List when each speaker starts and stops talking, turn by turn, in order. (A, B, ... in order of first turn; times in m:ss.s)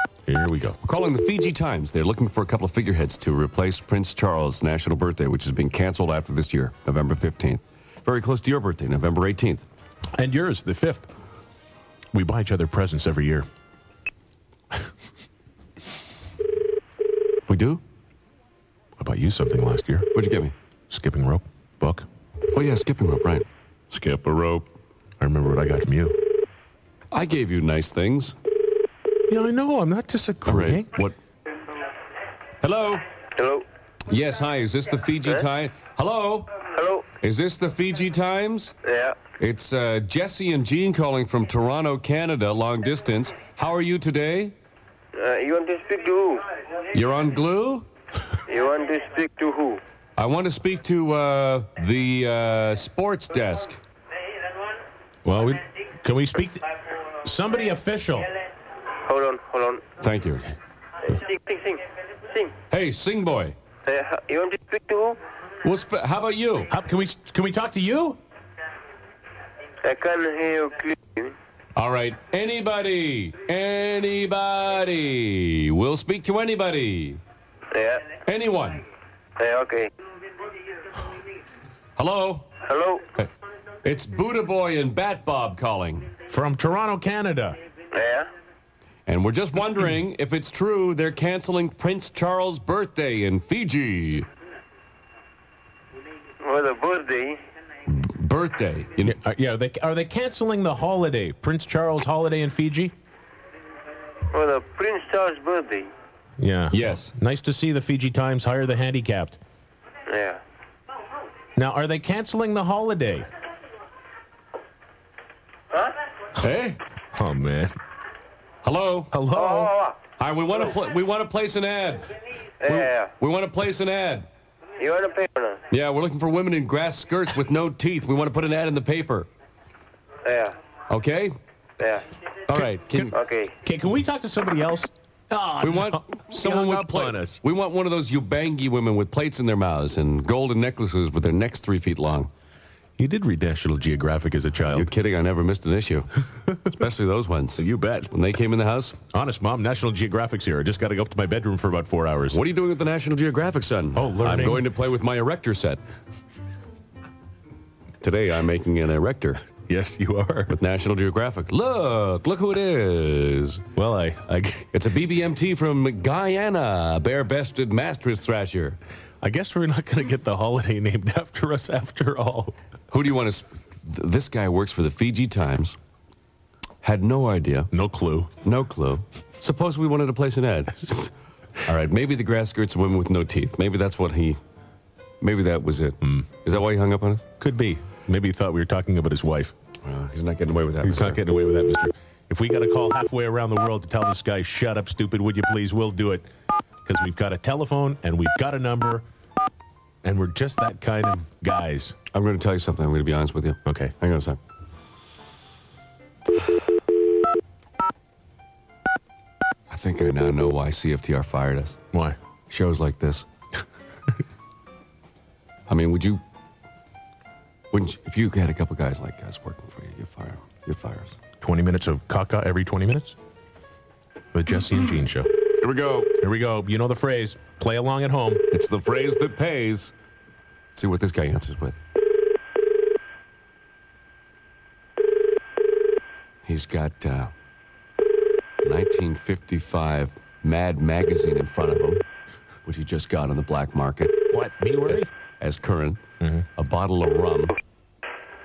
0:00.2-0:00.8 A
0:00.8-0:09.6 B
0:10.2-0:11.1 A
0:12.1-0:13.4 A
0:17.5-0:17.8 B
0:19.0-0:20.1 A
0:20.1-0:20.5 B
0:20.9-0:22.0 A
0:22.5-0:24.6 B
0:25.2-0:26.2 A
0:27.1-0:28.3 B
0:29.3-0:30.9 A
0:30.4-0:31.1 B
0:32.6-0:33.0 B
0:33.4-0:33.6 C
0:34.1-0:36.5 B
0:36.7-0:37.0 C
0:37.2-0:38.7 B
0:38.8-0:39.2 C
0:39.4-0:44.5 B
0:45.1-0:46.4 C
0:46.9-0:47.9 B
0:48.5-0:49.8 C
0:50.2-0:53.8 B
0:55.2-0:56.6 A
0:57.2-0:58.3 A
0:59.0-0:59.8 C
1:00.0-1:00.5 B
1:01.1-1:02.5 C
1:02.7-1:03.6 B
1:03.8-1:05.2 C
1:05.6-1:06.7 B
1:06.7-1:08.2 A
1:09.8-1:11.3 C
1:11.8-1:12.1 A
1:12.0-1:17.2 B
1:17.7-1:18.1 C
1:18.2-1:18.8 B
1:19.4-1:19.9 C
1:22.0-1:22.5 B
1:22.6-1:23.0 C
1:23.8-1:26.1 B
1:26.3-1:27.6 A
1:27.9-1:28.3 C
1:29.0-1:34.3 B
1:36.4-1:37.4 C
1:37.9-1:39.2 B
1:39.0-1:42.9 A
1:44.3-1:45.9 C
1:46.4-1:49.4 A
1:46.7-1:47.1 B
1:50.1-1:50.4 C
1:51.6-1:53.3 A
1:56.4-1:56.8 B
1:57.1-1:57.7 A
1:58.6-1:59.1 B
1:59.1-1:59.7 A
1:59.3-2:00.0 C
2:00.2-2:02.0 B
2:02.6-2:03.1 C
2:02.6-2:04.2 B
2:04.8-2:05.6 C
2:05.7-2:09.3 B
2:10.2-2:10.6 C
2:10.9-2:11.3 B
2:11.8-2:12.0 C
2:12.5-2:13.1 B
2:12.5-2:17.4 A
2:13.1-2:13.5 C
2:15.6-2:22.3 B
2:23.0-2:24.9 A
2:24.7-2:29.0 B
2:27.6-2:28.1 A
2:29.1-2:32.4 A
2:32.3-2:35.8 B
2:33.9-2:34.7 A
2:38.0-2:39.4 B
2:39.5-2:40.6 A
2:40.5-2:43.6 B
2:43.8-2:44.7 A
2:44.7-2:48.8 B
2:49.2-2:52.5 A
2:52.9-2:55.8 B
2:56.8-2:57.7 B
2:57.7-2:58.3 A
2:58.4-3:04.4 B
3:05.2-3:07.2 B
3:07.4-3:09.5 A
3:09.8-3:11.2 B
3:10.8-3:16.3 A
3:16.8-3:19.0 A
3:20.0-3:21.9 A
3:22.1-3:24.4 B
3:23.6-3:23.9 A
3:29.7-3:31.8 B
3:32.5-3:33.3 B
3:35.7-3:36.2 B
3:37.7-3:41.2 B
3:41.4-3:43.2 A
3:44.3-3:45.3 A
3:45.6-3:46.1 B
3:46.2-3:48.4 A
3:48.5-3:49.9 B
3:50.7-3:51.8 B
3:56.4-3:57.3 B
3:58.6-4:02.0 B
4:02.6-4:04.2 B
4:04.3-4:05.1 A
4:04.9-4:06.0 B
4:06.6-4:07.6 B